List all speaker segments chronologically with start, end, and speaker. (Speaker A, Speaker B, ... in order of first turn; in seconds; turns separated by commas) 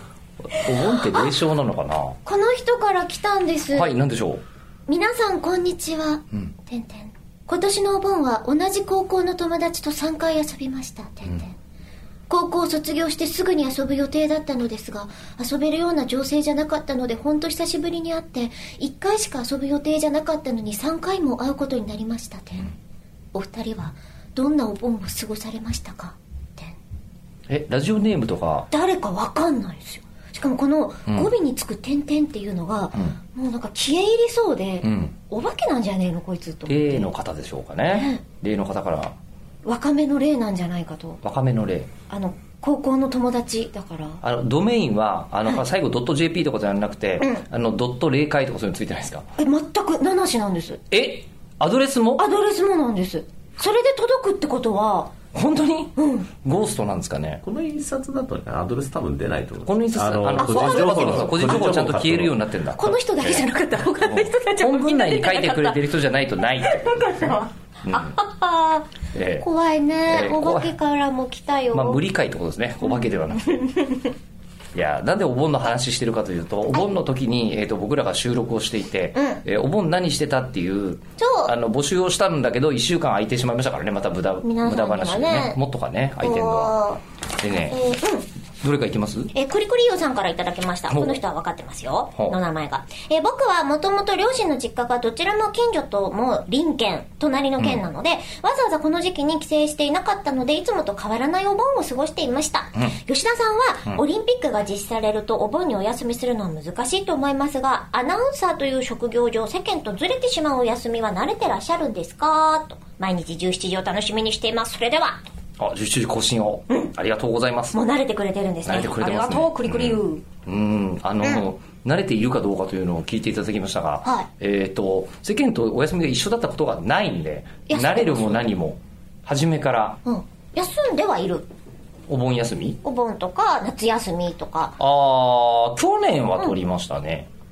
Speaker A: 0.5-2.2, Speaker B: 2.2-3.9, Speaker A: 3.7-4.4, Speaker B: 4.9-11.5, Speaker B: 12.3-22.7, Speaker B: 23.3-26.8, Speaker A: 27.5-28.7, Speaker B: 28.7-37.1, Speaker A: 34.8-35.1, Speaker A: 36.7-39.1, Speaker B: 37.9-38.2, Speaker B: 39.6-41.2, Speaker A: 41.2-41.9, Speaker B: 42.1-44.2, Speaker A: 44.2-49.2, Speaker B: 49.4-50.8, Speaker A: 50.9-52.2, Speaker B: 52.2-55.1, Speaker A: 55.3-57.4, Speaker B: 56.0-56.3, Speaker C: 57.4-62.3, Speaker A: 59.6-63.5, Speaker B: 60.3-61.3, Speaker B: 62.7-65.9, Speaker A: 64.0-68.2, Speaker B: 66.6-68.9, Speaker A: 69.1-69.5, Speaker B: 69.4-72.0, Speaker A: 70.0-70.8, Speaker A: 71.7-73.8, Speaker A: 74.7-86.8, Speaker B: 79.2-79.4, Speaker B: 81.2-81.5, Speaker B: 84.4-85.6, Speaker B: 86.2-88.3, Speaker A: 87.4-88.0, Speaker A: 88.6-89.3, Speaker B: 89.3-115.2, Speaker A: 90.9-91.2, Speaker A: 115.6-117.8, Speaker B: 117.7-120.2, Speaker A: 118.7-130.0, Speaker B: 127.7-128.5, Speaker B: 130.1-131.5, Speaker A: 132.1-132.8, Speaker B: 132.8-134.8, Speaker A: 134.8-137.3